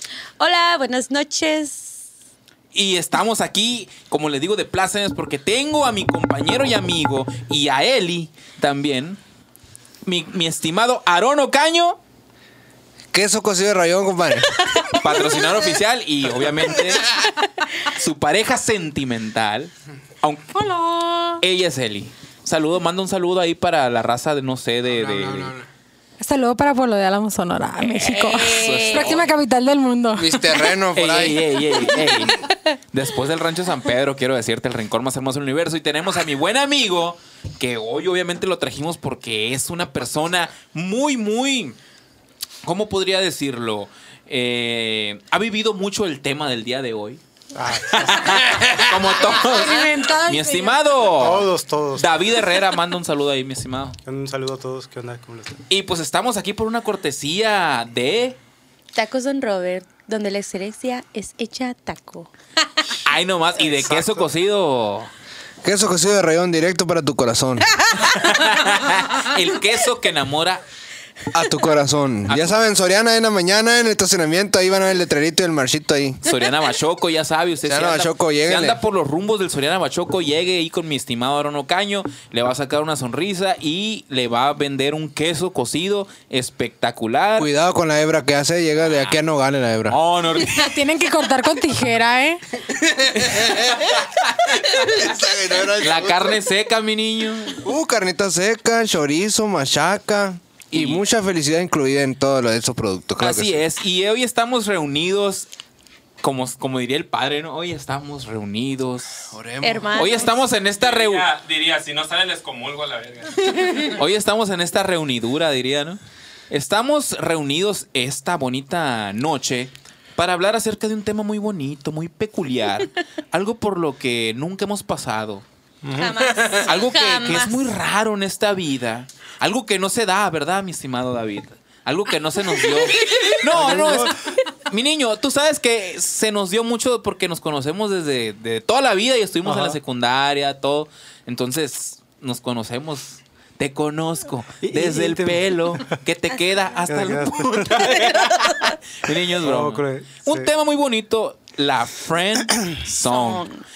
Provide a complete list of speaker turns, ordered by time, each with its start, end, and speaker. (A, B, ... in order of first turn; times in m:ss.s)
0:00.4-0:02.0 A
0:02.7-0:09.2 B
0:10.0-0:12.0 B
0:13.1-0:14.8 C
0:14.9-0:17.2 B
0:17.8-0:20.6 B
0:20.5-0:21.4 D
0:21.4-0:25.5 B
0:24.8-0:25.7 C
0:26.2-0:30.6 D
0:27.8-0:29.3 B
0:28.0-0:29.2 A
0:30.1-0:31.6 C
0:30.9-0:41.8 B
0:32.0-0:32.4 D
0:42.6-0:47.2 B
0:47.5-0:48.4 E
0:47.8-0:54.0 B
0:48.5-0:49.0 C
0:49.2-0:51.2 D
0:51.2-0:52.2 E
0:54.0-0:55.6 E
0:55.7-0:58.4 B
0:58.9-1:02.3 A
1:03.0-1:05.1 B
1:03.6-1:04.3 C
1:05.6-1:07.7 C
1:07.9-1:10.6 B
1:11.3-1:16.2 C
1:12.3-1:12.5 B
1:16.2-1:27.5 B
1:17.6-1:18.8 C
1:27.4-1:30.0 C
1:29.9-1:30.8 B
1:30.4-1:32.4 D
1:32.7-1:36.4 C
1:33.2-1:35.2 B
1:35.8-1:37.7 B
1:37.6-1:43.6 C
1:40.7-1:41.0 B
1:43.2-1:45.5 B
1:46.2-1:49.3 B
1:49.3-1:50.2 C
1:49.6-1:50.3 A
1:49.9-1:51.3 B
1:50.8-1:54.0 F
1:53.8-1:56.0 B
1:56.5-2:05.4 B
2:05.8-2:06.2 E
2:05.9-2:07.7 A
2:06.2-2:06.7 C
2:06.6-2:33.4 B
2:12.6-2:13.2 A
2:13.4-2:14.2 E
2:19.4-2:19.8 E
2:24.6-2:25.9 E
2:26.9-2:28.0 E
2:27.8-2:28.8 A
2:29.4-2:30.5 E
2:33.0-2:33.6 A